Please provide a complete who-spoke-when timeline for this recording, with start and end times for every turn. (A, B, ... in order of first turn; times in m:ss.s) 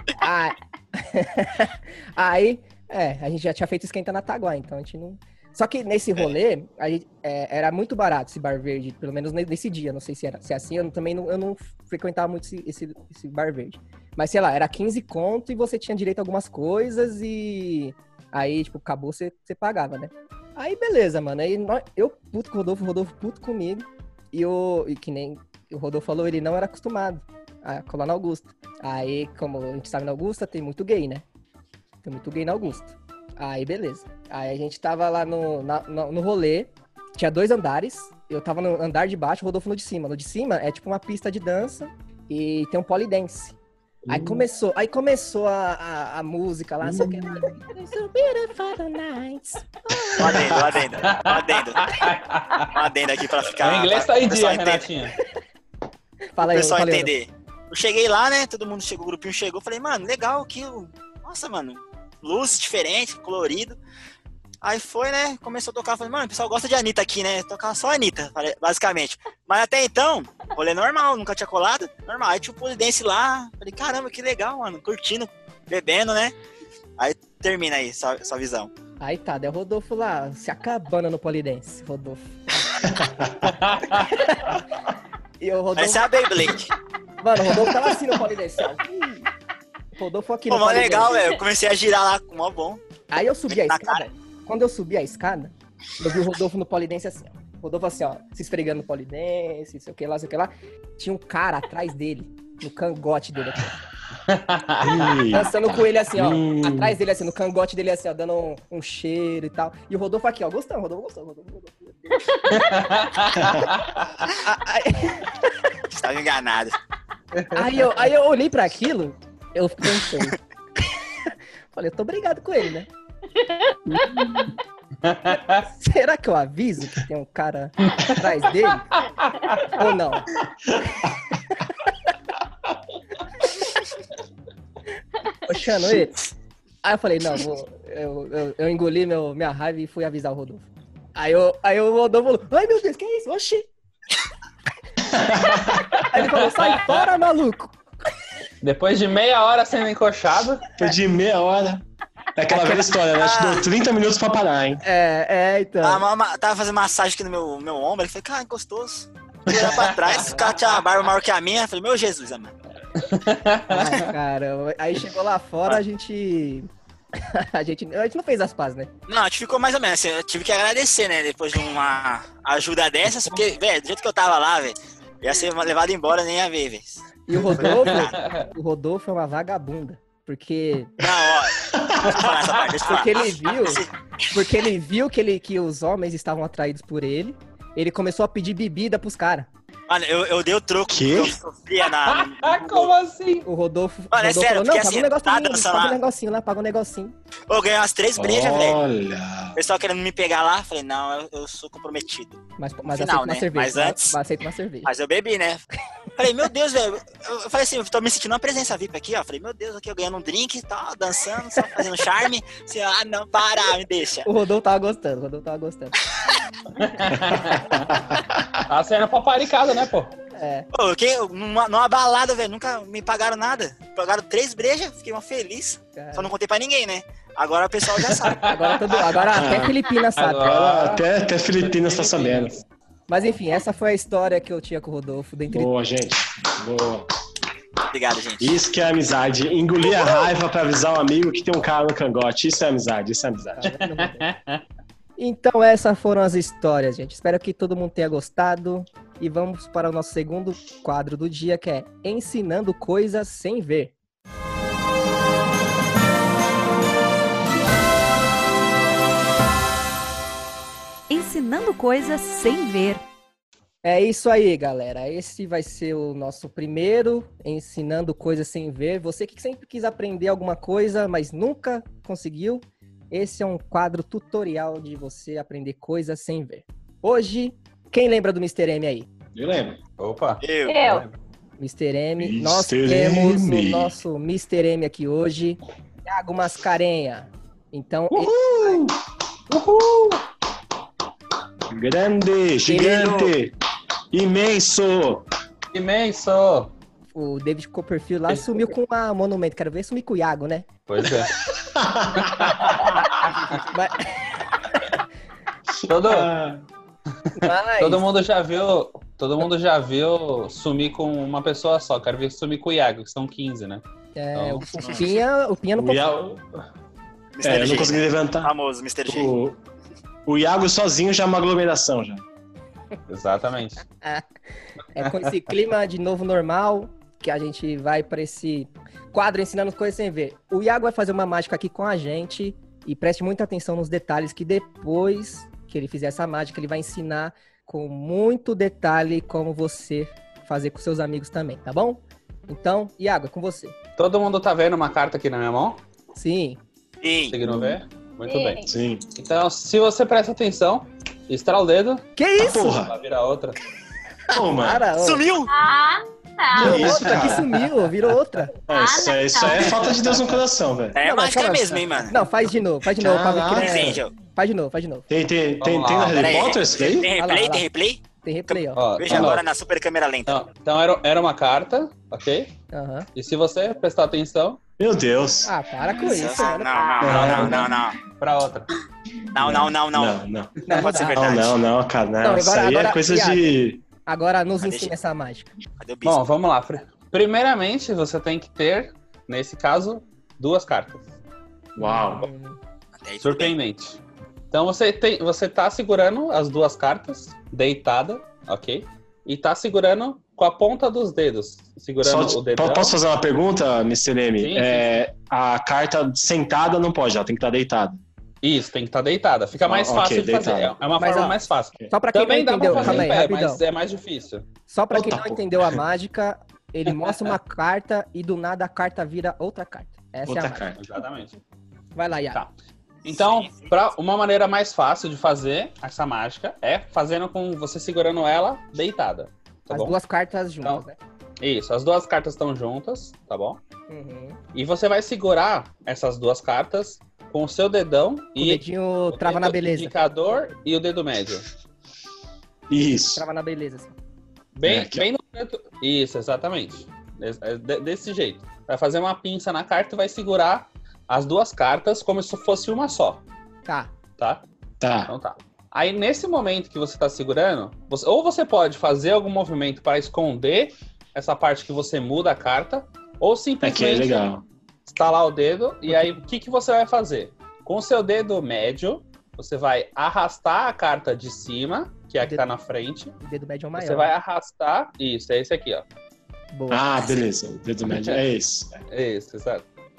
0:00.2-0:31.2 A
0:32.0-0:43.5 A
0:44.0-0:44.4 B
0:44.1-0:50.5 A
0:46.8-0:47.4 B
0:50.2-0:52.7 C
0:50.2-0:52.0 D
0:52.6-0:54.9 D
0:53.6-0:55.1 C
0:56.4-0:57.1 A
0:56.4-1:03.8 D
1:04.6-1:16.3 D
1:17.0-1:18.7 D
1:19.0-1:22.3 A
1:22.8-1:23.4 B
1:23.4-1:24.2 C
1:24.1-1:24.6 A
1:25.4-1:26.1 A
1:25.8-1:26.7 D
1:27.2-1:29.3 A
1:30.0-1:31.1 A
1:30.5-1:32.8 D
1:33.1-1:43.8 A
1:33.5-1:34.0 D
1:44.3-1:45.2 C
1:44.8-1:47.0 B
1:45.3-1:52.7 A
1:52.5-1:54.1 C
1:53.4-1:53.6 B
1:54.4-1:55.5 A
1:55.9-1:56.8 D
1:57.3-1:57.9 C
1:57.5-2:01.0 A
2:01.7-2:02.9 A
2:03.4-2:04.2 E
2:03.9-2:04.4 B
2:05.0-2:05.6 C
2:05.8-2:08.9 A
2:07.9-2:08.2 C
2:09.4-2:09.8 C
2:09.7-2:10.3 A
2:10.7-2:11.2 B
2:15.4-2:16.2 A
2:16.8-2:23.7 A
2:25.1-2:25.9 B
2:26.0-2:27.0 C
2:26.1-2:27.8 A
2:28.6-2:30.6 C
2:30.8-2:31.8 B
2:32.3-2:34.8 B
2:32.5-2:32.8 A
2:33.1-2:33.6 D
2:34.8-2:36.0 A
2:35.8-2:42.5 D
2:39.5-2:39.8 B
2:39.7-2:40.3 C
2:40.2-2:40.5 A
2:43.0-2:44.0 C
2:43.7-2:48.9 A
2:49.1-2:58.3 D
2:53.2-2:53.5 C
2:57.3-3:00.9 A
2:57.6-2:58.4 C
3:01.0-3:03.9 D
3:01.6-3:02.2 B
3:02.9-3:09.5 A
3:09.9-3:12.9 D
3:10.9-3:11.4 B
3:11.8-3:13.4 C
3:13.4-3:17.1 A
3:14.1-3:16.0 D
3:17.5-3:18.8 D
3:18.2-3:19.6 B
3:19.5-3:24.2 D
3:22.6-3:24.9 A
3:24.8-3:25.6 D
3:26.2-3:34.3 D
3:34.2-3:36.0 A
3:36.8-3:38.0 C
3:37.2-3:38.6 B
3:38.7-3:40.1 C
3:40.3-3:40.7 A
3:40.7-3:48.4 D
3:46.0-3:46.3 A
3:48.1-3:48.7 C
3:48.3-3:50.5 A
3:49.3-3:49.8 B
3:50.2-3:52.6 C
3:50.4-3:52.6 B
3:53.1-3:55.7 A
3:55.5-3:57.1 B
3:57.9-3:58.4 D
3:58.4-4:03.6 B
4:03.6-4:04.3 A
4:03.6-4:04.6 C
4:05.2-4:13.9 A
4:21.1-4:23.0 F
4:23.8-4:39.1 A
4:39.3-4:39.8 B
4:40.0-4:41.2 C
4:40.4-4:40.9 D
4:40.6-4:41.1 E
4:41.6-4:48.8 A
4:42.2-4:44.0 B
4:48.1-4:48.9 B
4:49.5-4:50.2 B
4:51.7-4:53.5 B
4:52.7-4:53.3 A
4:54.1-4:55.3 B
4:55.7-4:56.7 C
4:57.1-5:00.7 A
5:00.9-5:01.4 C
5:01.5-5:03.0 B
5:02.2-5:03.6 C
5:03.7-5:04.1 A
5:05.7-5:06.6 B
5:05.9-5:06.3 C
5:07.4-5:08.0 A
5:07.4-5:13.8 C
5:14.2-5:16.0 A
5:14.3-5:14.7 C
5:15.8-5:16.6 B
5:17.3-5:19.3 D
5:17.4-5:18.5 B
5:19.0-5:19.6 B
5:20.2-5:22.2 B
5:23.1-5:23.8 C
5:24.9-5:43.7 A
5:25.0-5:25.3 C
5:44.0-5:45.8 C
5:46.1-5:46.6 A
5:47.0-5:47.3 D
5:47.3-5:48.6 C
5:47.4-5:47.8 B
5:48.2-5:48.7 E
5:48.6-5:49.0 B
5:49.2-5:52.0 C
5:52.2-5:52.8 A
5:52.4-5:52.9 B
5:52.6-5:53.6 C
5:54.3-5:54.8 B
5:54.3-5:55.2 A
5:55.0-5:55.5 D
5:55.5-5:56.9 E
5:56.5-5:57.5 B
5:56.6-5:58.5 A
5:56.7-5:57.3 C
5:58.7-6:01.0 B
5:58.7-5:59.7 E
5:59.6-6:00.4 C
6:00.9-6:02.2 D
6:01.0-6:05.0 A
6:03.0-6:04.0 B
6:03.5-6:04.1 D
6:05.1-6:07.1 B
6:05.6-6:06.7 C
6:06.0-6:10.4 D
6:07.2-6:07.7 A
6:08.2-6:08.9 A
6:08.7-6:09.4 C
6:10.3-6:12.5 C
6:12.7-6:13.1 A
6:13.1-6:14.6 C
6:14.8-6:15.5 B
6:15.4-6:17.7 A
6:16.0-6:18.0 D
6:17.0-6:17.7 B
6:17.1-6:17.6 C
6:18.2-6:18.7 C
6:19.3-6:21.6 D
6:19.3-6:23.8 B
6:20.6-6:21.2 A
6:22.2-6:25.5 A
6:24.6-6:24.9 D
6:25.8-6:26.2 D
6:26.0-6:31.0 C
6:31.8-6:32.3 B
6:31.8-6:32.6 A
6:33.0-6:33.5 D
6:33.2-6:34.0 C
6:34.5-6:43.0 C
6:42.0-6:48.0 B
6:44.4-6:44.9 C
6:48.4-6:54.4 C
6:49.6-6:50.8 B
6:51.0-6:53.6 A
6:52.7-6:53.1 B
6:54.7-7:00.7 A
6:54.9-6:55.8 B
6:56.9-6:57.4 C
7:00.2-7:00.9 B
7:00.8-7:01.4 C
7:01.9-7:02.4 A
7:03.0-7:10.0 C
7:03.0-7:03.7 D
7:09.7-7:11.0 A
7:11.4-7:13.6 C
7:13.9-7:14.4 A
7:14.5-7:21.5 C
7:18.4-7:19.9 A
7:22.7-7:23.2 B
7:23.2-7:23.9 A
7:24.5-7:33.2 C
7:24.6-7:25.1 B
7:33.6-7:33.9 A
7:34.2-7:34.4 C
7:34.8-7:35.1 B
7:35.1-7:44.3 C
7:43.6-7:44.4 B
7:44.8-7:53.2 C
7:45.9-7:46.2 A
7:52.2-7:52.5 A
7:53.2-7:54.1 A
7:53.8-7:55.8 C
7:56.5-7:57.1 A
7:56.7-7:58.8 B
7:57.8-7:58.2 C
7:58.9-7:59.6 C